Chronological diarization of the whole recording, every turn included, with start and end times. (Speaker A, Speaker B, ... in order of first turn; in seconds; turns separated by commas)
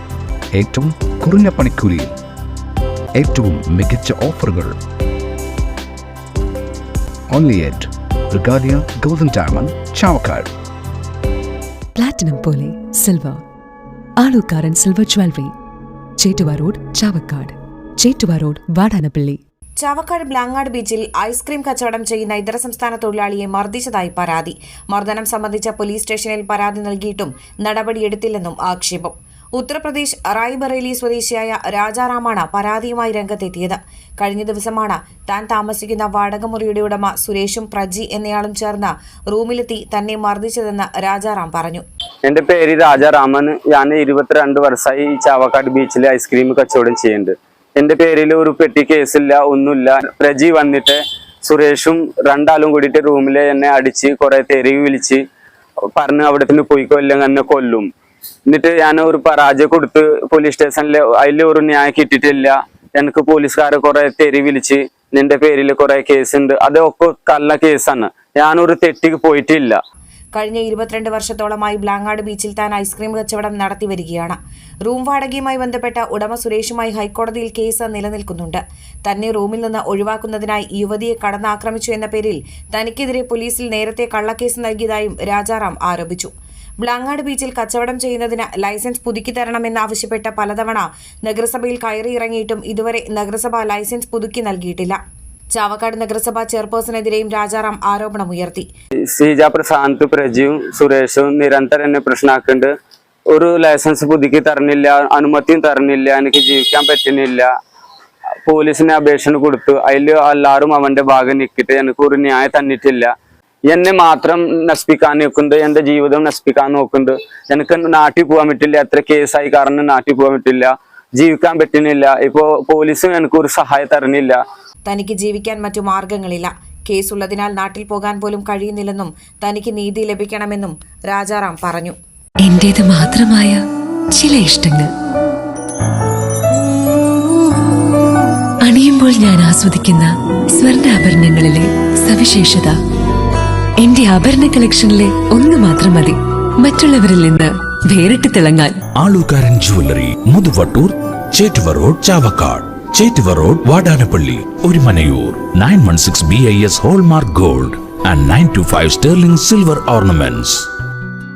Speaker A: 0.5-2.2, Speaker A: 3.1-4.8, Speaker A: 7.3-10.5, Speaker B: 11.9-13.4, Speaker B: 14.2-15.5, Speaker B: 16.2-19.4, Speaker C: 19.8-41.8, Speaker D: 42.2-55.2, Speaker D: 56.0-57.9, Speaker D: 58.5-69.8, Speaker C: 70.3-95.0, Speaker C: 95.5-98.7, Speaker D: 99.1-102.7, Speaker D: 103.3-107.5, Speaker D: 108.4-113.1, Speaker D: 113.7-124.4, Speaker C: 124.8-131.9, Speaker B: 132.4-134.9, Speaker B: 138.6-142.8, Speaker B: 143.8-148.8, Speaker E: 148.9-160.7